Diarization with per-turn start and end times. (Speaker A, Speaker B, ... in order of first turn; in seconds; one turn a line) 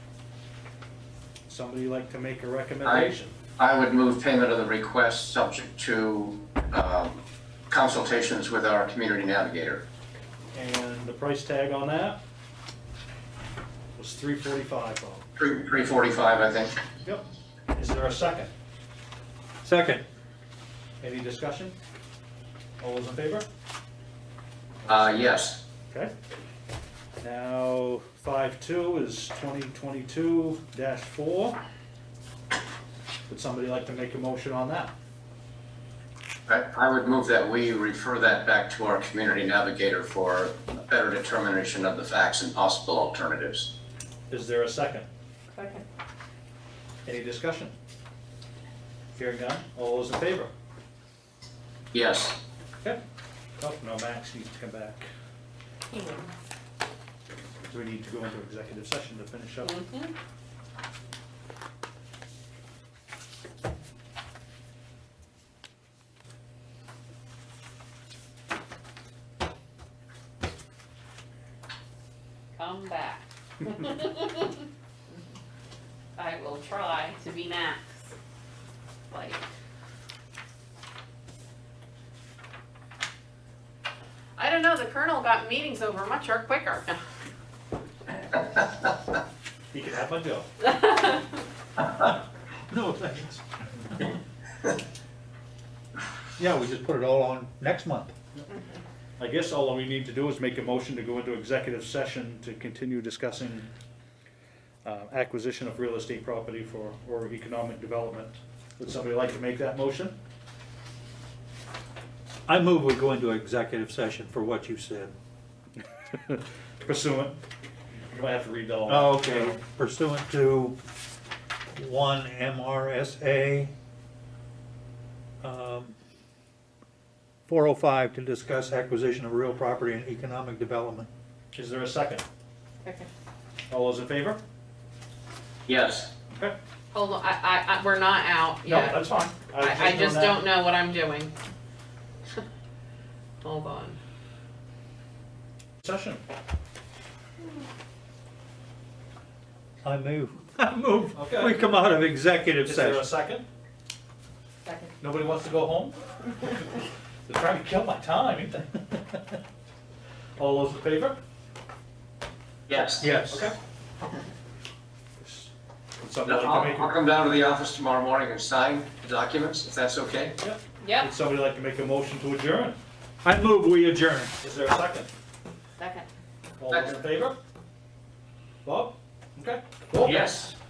Speaker A: 1.5-3.3
Speaker B: 2.8-7.2
Speaker B: 7.7-9.8
Speaker A: 10.5-12.2
Speaker A: 13.9-15.2
Speaker B: 15.4-16.8
Speaker A: 17.0-18.5
Speaker C: 19.6-20.0
Speaker A: 21.0-21.7
Speaker A: 22.8-23.4
Speaker A: 24.8-25.4
Speaker B: 24.9-25.6
Speaker A: 27.2-31.6
Speaker A: 33.3-34.9
Speaker B: 36.5-43.7
Speaker A: 44.3-45.1
Speaker D: 45.5-45.8
Speaker A: 47.0-47.7
Speaker A: 49.1-50.5
Speaker B: 51.9-52.4
Speaker A: 53.6-55.1
Speaker D: 55.9-56.3
Speaker A: 57.7-59.8
Speaker D: 59.6-60.1
Speaker D: 72.5-74.6
Speaker D: 76.2-78.1
Speaker D: 79.1-79.4
Speaker D: 84.4-87.0
Speaker A: 89.7-90.5
Speaker C: 92.7-94.2
Speaker C: 96.4-98.1
Speaker A: 99.2-103.7
Speaker A: 104.8-110.2
Speaker C: 112.5-115.1
Speaker A: 116.1-117.4
Speaker A: 118.1-119.5
Speaker C: 118.9-120.7
Speaker C: 121.7-123.7
Speaker C: 125.4-126.0
Speaker C: 127.5-131.1
Speaker A: 131.5-132.2
Speaker A: 133.7-134.4
Speaker B: 135.7-136.1
Speaker A: 136.3-136.6
Speaker D: 136.9-139.0
Speaker A: 138.6-140.4
Speaker D: 139.6-141.3
Speaker D: 143.4-144.0
Speaker A: 145.8-146.2
Speaker C: 149.8-153.1
Speaker A: 151.1-151.6
Speaker A: 152.6-153.4
Speaker D: 154.7-154.9
Speaker A: 155.0-156.7
Speaker A: 157.3-159.2
Speaker A: 160.4-161.2
Speaker B: 162.7-163.1
Speaker A: 162.8-163.5
Speaker C: 163.0-163.5
Speaker A: 165.2-167.0
Speaker B: 166.2-170.3
Speaker A: 170.4-172.8
Speaker D: 170.8-171.1
Speaker C: 173.2-174.3
Speaker A: 174.4-175.1
Speaker D: 175.8-176.1
Speaker A: 176.6-177.4
Speaker A: 178.6-180.4
Speaker B: 180.0-180.5